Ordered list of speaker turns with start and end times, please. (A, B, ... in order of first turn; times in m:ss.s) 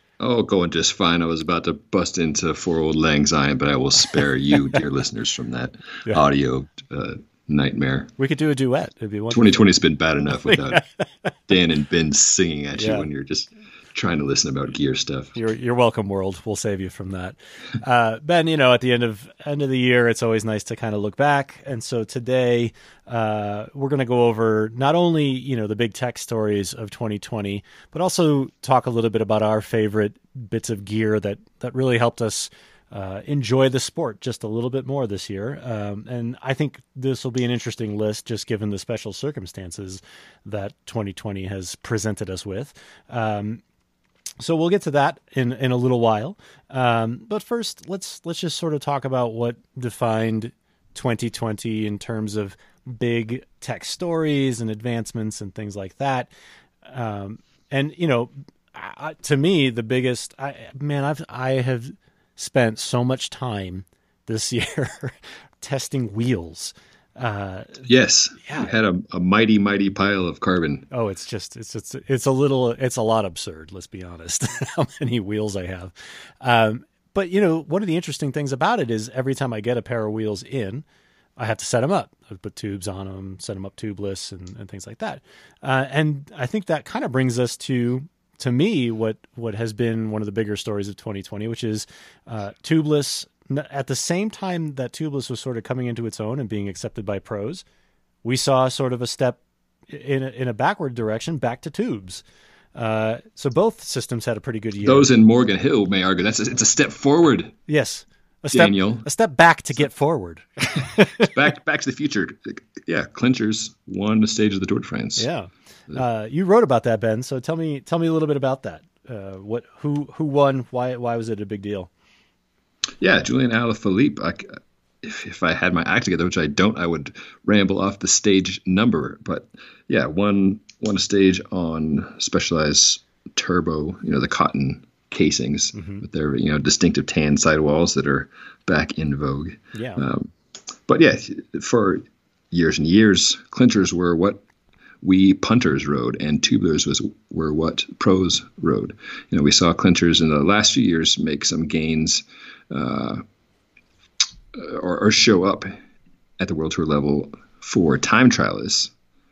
0:00.2-0:08.1 A
0:08.2-0:09.7 B
0:09.3-0:10.8 A
0:10.4-0:11.3 B
0:11.5-0:15.3 A
0:12.7-0:13.1 B
0:15.3-0:43.6 B
0:44.4-0:56.3 B
0:56.8-1:07.8 B
1:07.8-1:10.8 A
1:08.4-1:08.7 B
1:10.9-1:20.8 B
1:21.4-1:37.6 B
1:38.2-1:42.2 B
1:42.7-1:45.1 B
1:44.8-1:47.5 A
1:47.7-1:51.3 B
1:48.5-1:49.1 A
1:51.2-1:55.2 A
1:55.2-2:01.9 B
2:03.0-2:04.5 A
2:05.0-2:20.3 A
2:15.7-2:16.0 B
2:19.7-2:20.0 B
2:20.8-2:24.4 A
2:25.0-2:33.2 A
2:34.5-2:35.7 A
2:36.4-2:38.9 A